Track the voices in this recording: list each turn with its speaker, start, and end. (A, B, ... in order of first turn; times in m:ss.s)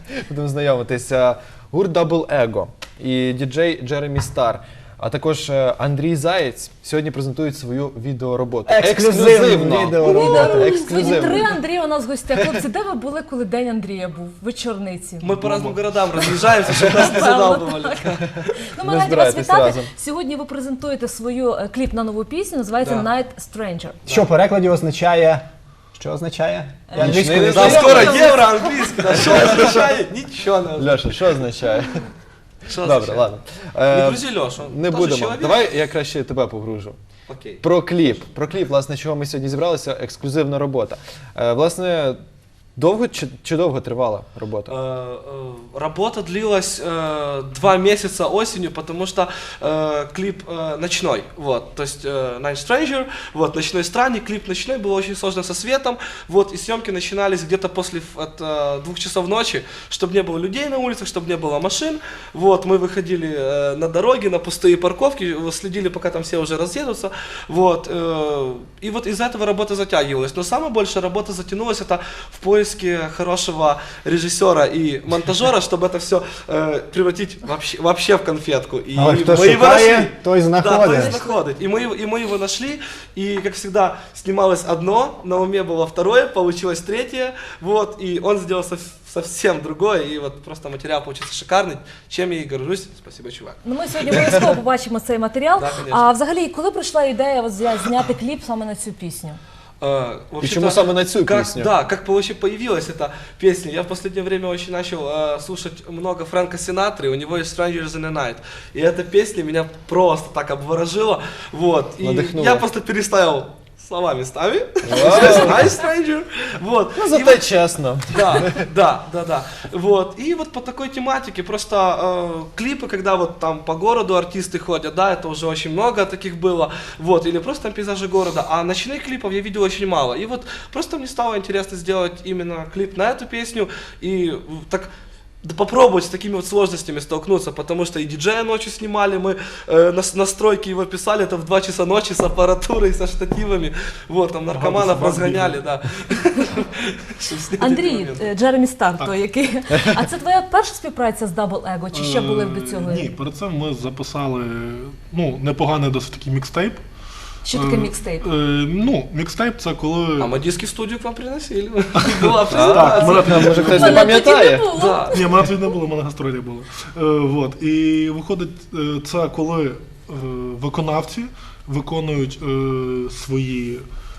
0:00.2-0:11.4 A
0:08.6-0:11.2 B
0:10.0-0:15.4 C
0:15.2-0:18.5 D
0:15.4-0:15.7 E
0:16.2-0:24.2 C
0:18.8-0:19.9 A
0:22.8-0:23.1 D
0:24.0-0:27.9 B
0:26.9-0:29.3 C
0:26.9-0:28.2 A
0:27.2-0:31.5 D
0:30.8-0:32.1 A
0:32.6-0:33.3 D
0:32.8-0:37.0 A
0:33.9-0:35.6 D
0:37.3-0:37.6 D
0:37.6-0:42.2 A
0:42.8-0:44.7 A
0:44.7-1:34.6 D
1:18.9-1:21.2 B
1:33.6-1:39.4 C
1:35.6-1:36.0 D
1:39.8-1:57.6 D
1:40.4-1:41.7 A
1:52.0-1:52.6 A
1:54.8-1:55.7 A
1:56.9-1:58.6 A
1:58.1-2:14.9 D
2:15.4-2:28.3 D
2:24.5-2:25.6 E
2:27.6-2:33.1 C
2:31.9-2:36.8 E
2:37.4-2:38.3 C
2:37.5-2:40.4 E
2:40.2-2:44.1 D
2:42.0-2:44.2 E
2:42.5-2:44.6 A
2:43.0-2:45.3 C
2:44.7-2:45.2 D
2:45.1-2:53.8 E